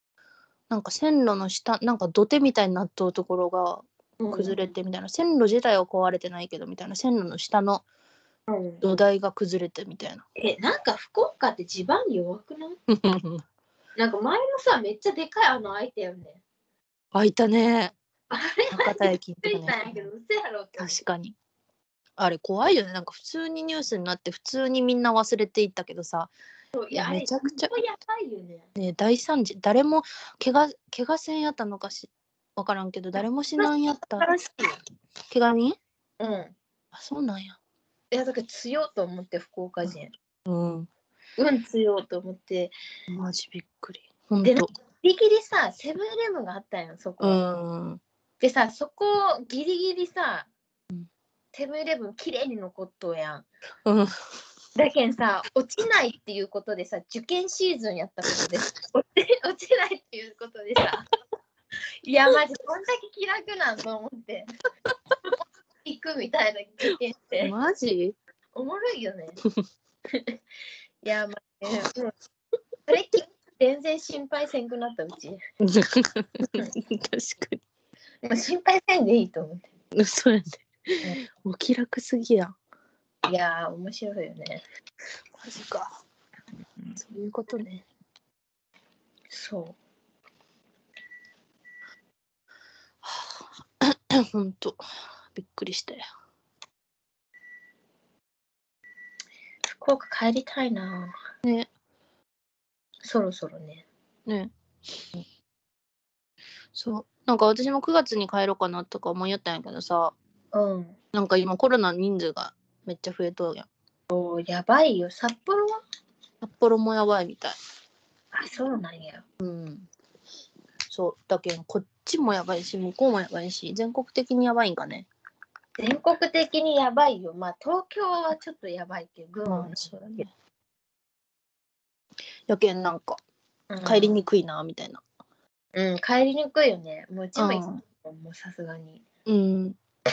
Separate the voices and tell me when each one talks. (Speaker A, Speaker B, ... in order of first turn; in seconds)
Speaker A: 0.7-7.8, 8.8-10.2, 12.9-13.4, 17.1-18.0, 18.7-19.9, 20.8-21.4, 22.2-26.3, 26.9-27.7, 28.8-34.3, 35.3-35.8, 36.9-37.6, 40.5-40.9, 43.1-44.7, 47.2-48.0, 53.9-54.1, 67.4-68.2, 75.6-77.6, 79.9-82.5, 85.4-85.9, 87.0-87.9, 93.0-94.8, 95.3-96.0, 101.4-101.7, 104.3-104.5, 106.7-110.2, 111.1-113.7, 116.4-117.6, 119.4-119.9, 120.9-125.1, 129.5-130.3, 132.5-133.2, 133.8-135.0, 137.4-137.8, 139.3-139.8
Speaker B: 4.2-4.7, 8.5-8.8, 10.4-12.8, 14.0-16.4, 18.3-21.0, 26.7-28.7, 33.6-34.8, 36.2-36.5, 38.1-40.1, 41.4-42.7, 44.4-47.4, 48.4-50.5, 51.5-53.5, 54.8-61.0, 62.0-64.5, 65.8-67.5, 68.5-69.4, 70.1-70.4, 71.0-72.1, 72.9-75.4, 78.2-79.7, 83.3-84.6, 89.3-89.8, 99.7-101.2, 103.0-103.9, 110.5-111.0, 114.1-115.8, 118.3-119.2, 125.8-130.2, 133.7-134.2, 135.8-139.0